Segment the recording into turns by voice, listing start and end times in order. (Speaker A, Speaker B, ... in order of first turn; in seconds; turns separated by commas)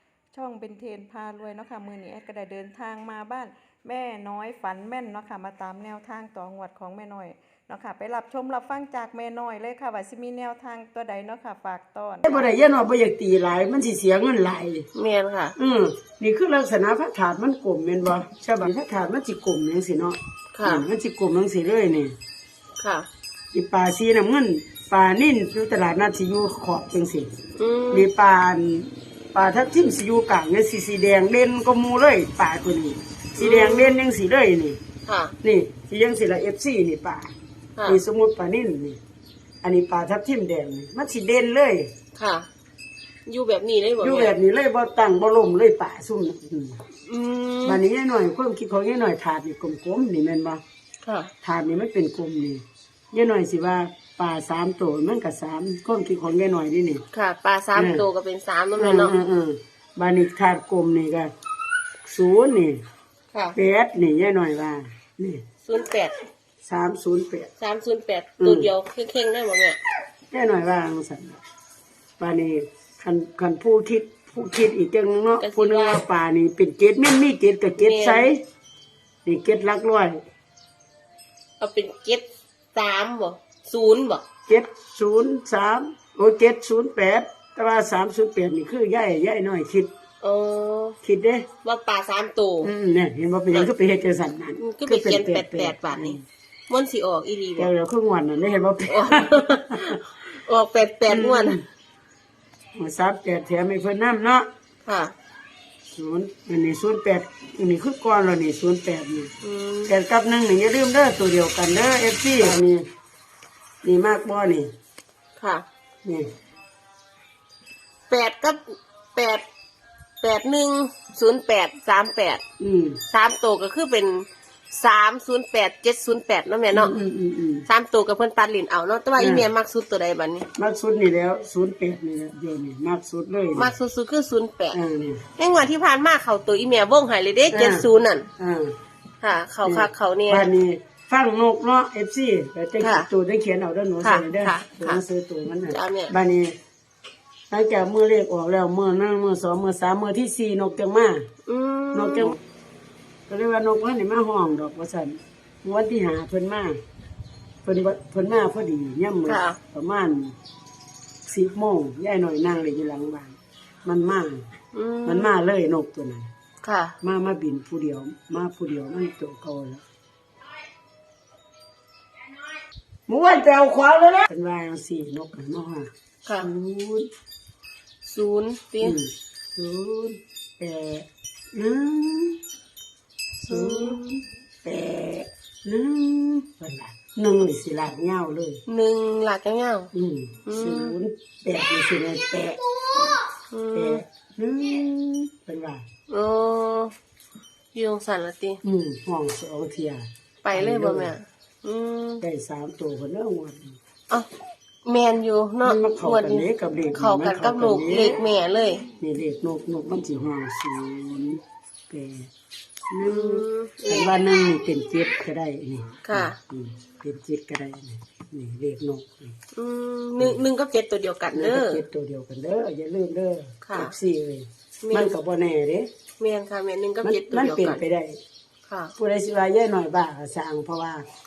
Speaker A: 0.3-12.5, Speaker B: 12.2-14.9, Speaker C: 14.9-15.6, Speaker B: 15.6-22.1, Speaker C: 20.6-20.9, Speaker C: 22.8-23.1, Speaker B: 23.5-27.3, Speaker C: 27.6-28.1, Speaker B: 27.9-34.8, Speaker C: 33.4-34.0, Speaker C: 35.1-35.3, Speaker B: 35.4-37.3, Speaker B: 37.8-39.0, Speaker B: 39.6-41.9, Speaker C: 42.2-42.5, Speaker C: 43.3-44.3, Speaker B: 44.0-46.8, Speaker C: 47.1-47.8, Speaker B: 47.6-50.6, Speaker C: 51.0-51.3, Speaker B: 51.4-57.0, Speaker C: 57.1-59.1, Speaker B: 57.8-58.0, Speaker B: 58.8-61.3, Speaker B: 62.0-62.8, Speaker B: 63.5-65.4, Speaker C: 65.6-66.2, Speaker B: 66.6-67.5, Speaker C: 67.6-69.8, Speaker B: 68.4-68.7, Speaker B: 70.3-71.4, Speaker B: 72.2-78.4, Speaker C: 75.4-76.0, Speaker C: 77.8-78.3, Speaker B: 79.2-80.2, Speaker C: 81.6-84.2, Speaker B: 84.5-89.9, Speaker C: 90.2-91.0, Speaker B: 91.0-91.5, Speaker C: 91.6-92.7, Speaker B: 92.6-96.2, Speaker C: 94.6-96.2, Speaker C: 96.7-97.7, Speaker B: 97.5-100.0, Speaker C: 98.9-101.6, Speaker B: 101.1-101.6, Speaker B: 102.7-104.5, Speaker C: 104.8-105.1, Speaker B: 105.9-109.3, Speaker C: 109.4-109.9, Speaker B: 109.8-112.8, Speaker B: 113.8-114.7, Speaker C: 115.4-115.6, Speaker B: 116.0-116.3, Speaker C: 118.1-119.4, Speaker C: 120.2-122.4, Speaker B: 122.6-123.0, Speaker C: 123.1-127.0, Speaker B: 126.7-127.7, Speaker C: 127.7-130.5, Speaker B: 129.2-129.5, Speaker B: 130.6-133.7, Speaker C: 133.5-134.8, Speaker B: 134.7-135.2, Speaker C: 135.4-138.3, Speaker B: 137.5-137.9, Speaker B: 138.4-138.8, Speaker C: 139.2-140.5, Speaker B: 139.6-146.5, Speaker C: 142.8-143.1, Speaker C: 144.0-145.0, Speaker C: 145.7-146.2, Speaker B: 147.5-151.3, Speaker C: 151.5-152.4, Speaker B: 151.9-152.4, Speaker B: 153.3-156.8, Speaker B: 157.6-160.4, Speaker C: 159.3-159.6, Speaker B: 161.3-164.5, Speaker C: 164.7-165.3, Speaker B: 165.1-166.3, Speaker C: 166.6-166.9, Speaker B: 167.0-169.8, Speaker B: 173.1-177.1, Speaker C: 178.1-179.0, Speaker B: 178.8-182.4, Speaker C: 183.4-184.0, Speaker B: 183.5-188.6, Speaker C: 188.7-189.9, Speaker B: 189.9-192.6, Speaker C: 190.5-190.9, Speaker C: 193.5-194.0, Speaker B: 193.7-195.9, Speaker C: 196.1-196.9, Speaker C: 197.7-198.6, Speaker B: 198.6-201.1, Speaker C: 200.4-202.2, Speaker B: 202.2-203.8, Speaker C: 204.8-208.9, Speaker B: 205.6-208.2, Speaker B: 209.0-212.3, Speaker B: 212.9-219.4, Speaker C: 213.0-214.1, Speaker C: 216.1-216.4, Speaker C: 219.6-221.8, Speaker B: 221.3-225.9, Speaker C: 223.7-223.9, Speaker C: 224.8-225.1, Speaker C: 226.2-227.8, Speaker B: 227.0-228.2, Speaker C: 228.7-228.9, Speaker B: 229.0-231.1